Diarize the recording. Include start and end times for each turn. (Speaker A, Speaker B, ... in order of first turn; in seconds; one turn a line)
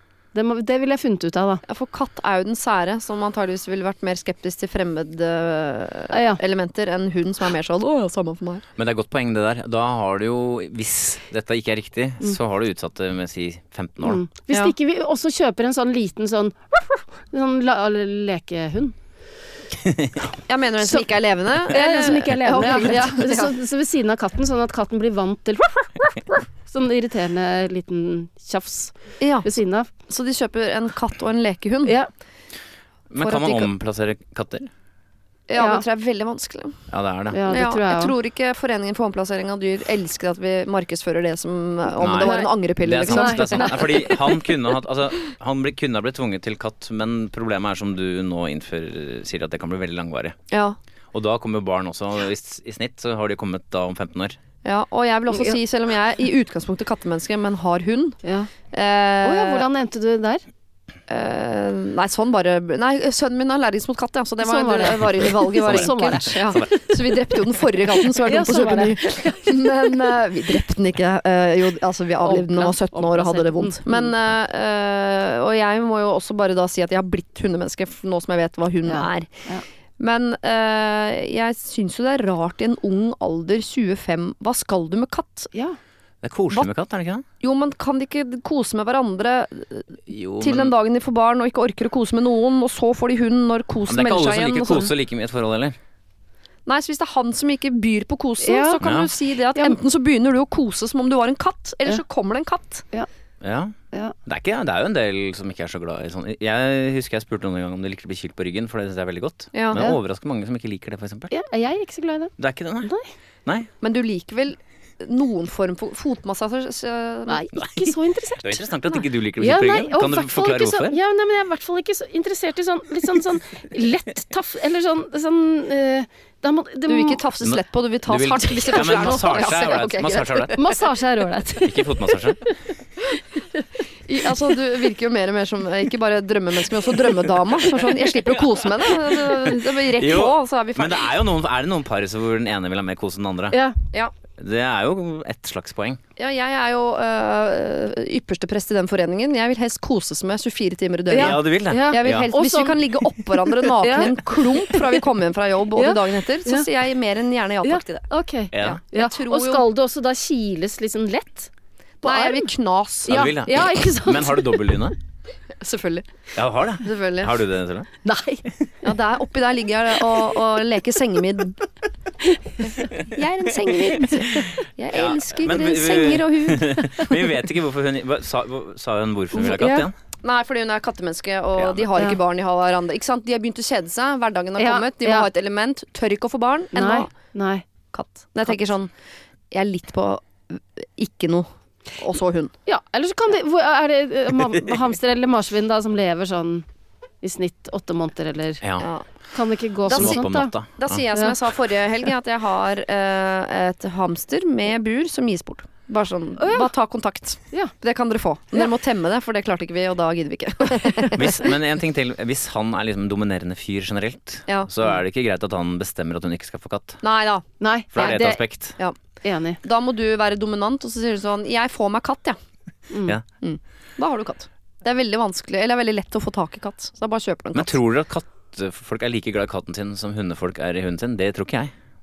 Speaker A: 0.3-1.6
Speaker B: 1.6-8.6
Speaker A: 6.1-6.4
Speaker C: 8.8-14.2
Speaker A: 14.0-19.0
Speaker C: 19.8-20.2
Speaker B: 20.4-23.5
Speaker A: 21.6-29.9
Speaker B: 29.2-29.5
Speaker B: 30.1-32.0
Speaker C: 33.1-34.7
Speaker B: 33.2-33.7
Speaker B: 35.5-36.8
Speaker A: 35.6-35.8
Speaker C: 36.9-37.4
Speaker A: 37.3-38.1
Speaker B: 37.5-44.1
Speaker C: 42.0-50.4
Speaker A: 42.2-42.5
Speaker A: 43.1-44.2
Speaker B: 50.5-50.8
Speaker C: 51.1-54.4
Speaker B: 54.6-58.2
Speaker A: 55.3-55.6
Speaker A: 58.2-58.5
Speaker B: 58.7-59.6
Speaker A: 59.2-60.4
Speaker B: 61.1-79.3
Speaker A: 64.4-66.7
Speaker C: 65.6-66.7
Speaker A: 68.0-70.2
Speaker A: 72.2-74.1
Speaker A: 78.9-79.6
Speaker B: 80.0-85.5
Speaker C: 86.2-87.2
Speaker B: 87.4-94.9
Speaker C: 90.1-90.7
Speaker C: 93.9-95.8
Speaker B: 96.7-102.8
Speaker A: 98.4-98.8
Speaker C: 98.8-99.1
Speaker C: 103.4-111.3
Speaker B: 109.5-109.8
Speaker A: 111.3-113.1
Speaker C: 112.4-112.9
Speaker B: 113.8-117.4
Speaker A: 117.3-118.6
Speaker C: 117.5-121.0
Speaker A: 119.4-127.2
Speaker B: 126.9-130.8
Speaker C: 127.4-130.6
Speaker A: 128.6-129.5
Speaker A: 130.6-132.3
Speaker C: 131.6-132.4
Speaker B: 134.1-141.1
Speaker C: 138.3-143.6
Speaker A: 143.5-143.8
Speaker C: 144.4-146.0
Speaker B: 146.2-158.1
Speaker A: 151.1-155.1
Speaker C: 151.1-152.3
Speaker A: 155.8-156.7
Speaker A: 157.6-161.5
Speaker C: 158.5-158.8
Speaker B: 158.6-159.6
Speaker A: 162.0-162.5
Speaker B: 162.0-163.2
Speaker A: 163.1-164.9
Speaker C: 163.1-165.0
Speaker B: 165.6-166.1
Speaker C: 166.3-167.9
Speaker B: 166.8-167.3
Speaker A: 168.0-168.5
Speaker B: 168.8-171.6
Speaker B: 172.6-177.1
Speaker C: 174.9-179.9
Speaker B: 179.4-187.1
Speaker C: 181.6-181.9
Speaker A: 184.6-185.3
Speaker A: 186.8-187.6
Speaker B: 187.9-188.9
Speaker B: 189.5-192.5
Speaker A: 192.7-196.7
Speaker A: 197.2-198.6
Speaker C: 198.6-198.9
Speaker B: 198.8-199.1
Speaker A: 199.3-200.5
Speaker B: 199.9-211.5
Speaker C: 199.9-201.0
Speaker A: 206.4-206.7
Speaker C: 211.1-217.0
Speaker B: 217.0-217.5
Speaker A: 217.6-218.4
Speaker C: 217.9-218.8
Speaker B: 218.0-218.2
Speaker A: 219.2-219.6
Speaker B: 219.6-222.4
Speaker A: 222.9-223.2
Speaker B: 223.4-227.8
Speaker C: 227.5-231.7